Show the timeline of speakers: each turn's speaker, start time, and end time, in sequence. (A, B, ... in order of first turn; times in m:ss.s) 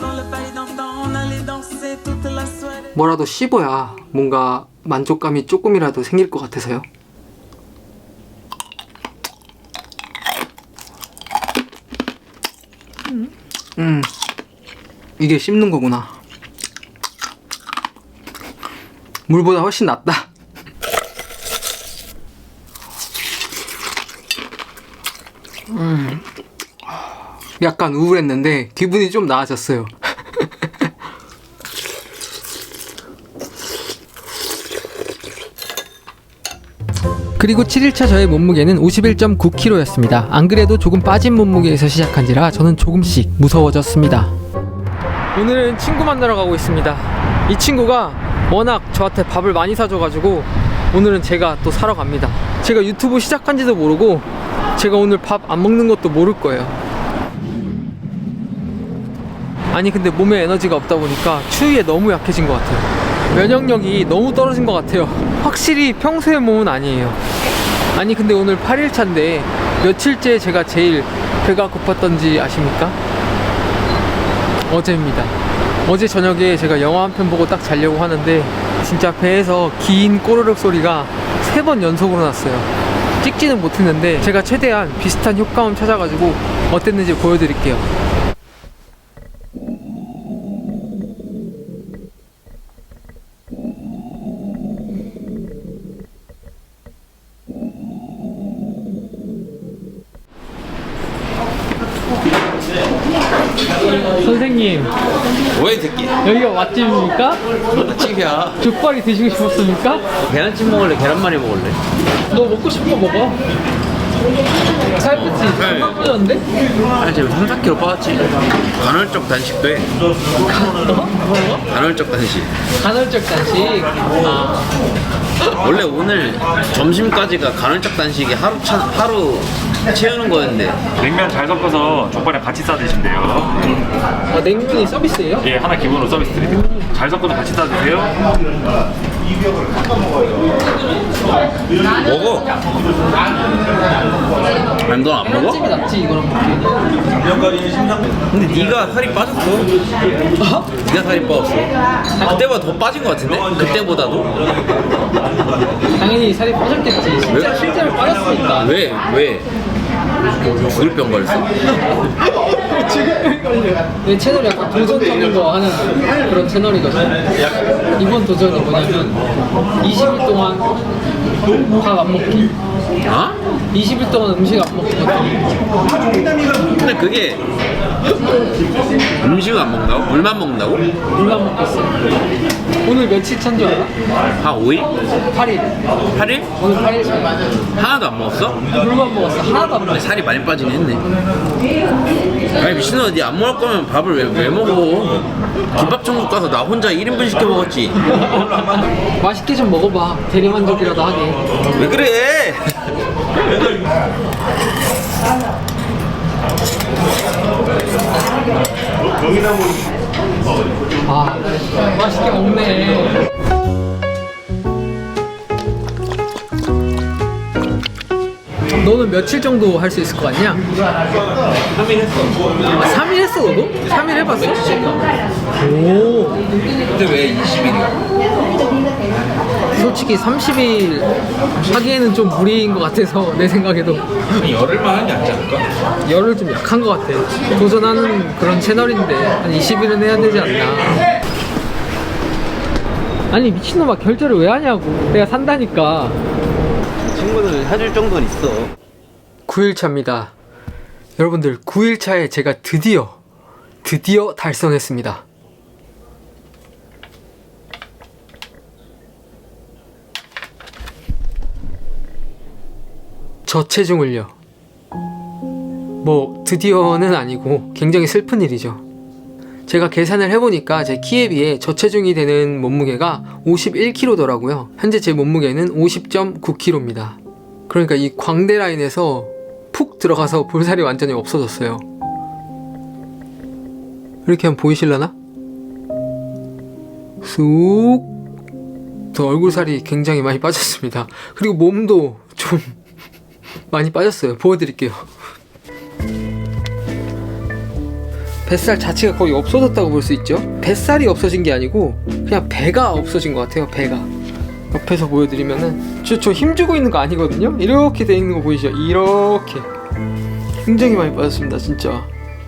0:02.9-0:06.8 A
0:13.8-0:14.1 A
0:15.2-0:16.2 A
0:19.3-0:20.3 A
0:25.7-0:26.2 A
0:27.6-0:30.5 A
0:37.4-0:44.3 A
0:45.3-0:56.8 A
0:59.7-1:07.2 A
1:07.9-1:13.0 A
1:14.6-1:22.7 A
1:23.2-1:27.9 A
1:44.2-1:44.9 A
1:45.5-1:46.2 B
1:46.2-1:47.4 A
1:47.7-1:48.6 B
1:48.6-1:50.0 A
1:50.2-1:51.8 B
1:52.3-1:53.4 A
1:54.9-1:56.4 A
1:55.2-1:55.9 B
1:57.0-1:59.9 B
2:00.5-2:01.2 A
2:01.7-2:02.5 B
2:02.8-2:04.6 A
2:05.5-2:10.9 B
2:11.0-2:13.8 C
2:14.3-2:15.6 A
2:15.5-2:18.2 C
2:16.6-2:16.8 A
2:22.0-2:22.6 B
2:24.8-2:25.6 B
2:25.2-2:26.8 A
2:28.3-2:29.7 B
2:30.4-2:30.7 A
2:30.7-2:34.3 B
2:36.0-2:38.7 A
2:37.3-2:37.7 B
2:38.6-2:39.5 B
2:40.4-2:41.5 B
2:42.5-2:47.2 A
2:48.0-2:49.2 A
2:49.8-2:50.7 A
2:51.7-2:52.6 A
2:53.0-2:53.4 B
2:53.7-2:55.5 A
2:56.4-2:57.4 B
2:59.2-3:00.9 B
3:01.1-3:01.9 A
3:02.8-3:03.9 A
3:04.4-3:04.9 B
3:05.3-3:05.7 A
3:06.1-3:06.5 B
3:06.6-3:07.3 A
3:07.7-3:08.6 B
3:08.7-3:10.0 A
3:09.9-3:11.0 B
3:12.6-3:18.0 B
3:19.2-3:21.4 A
3:21.8-3:22.7 B
3:31.0-3:33.2 A
3:38.8-3:40.6 A
3:41.8-3:42.3 B
3:42.8-3:45.0 A
3:45.5-3:46.4 A
3:46.9-3:48.0 B
3:49.7-3:51.1 A
3:51.7-3:54.0 A
3:54.3-3:55.6 B
3:56.0-4:01.0 A
4:03.3-4:06.2 A
4:07.1-4:08.7 B
4:09.5-4:10.3 A
4:11.2-4:13.2 A
4:13.8-4:15.2 A
4:23.4-4:24.3 A
4:26.0-4:28.8 A
4:29.7-4:41.8 A
4:44.2-4:45.1 A
4:47.2-4:48.1 A
4:49.1-4:52.8 A
4:53.7-4:55.1 A
4:58.4-5:04.1 A
5:04.7-5:09.7 A
5:10.6-5:12.1 A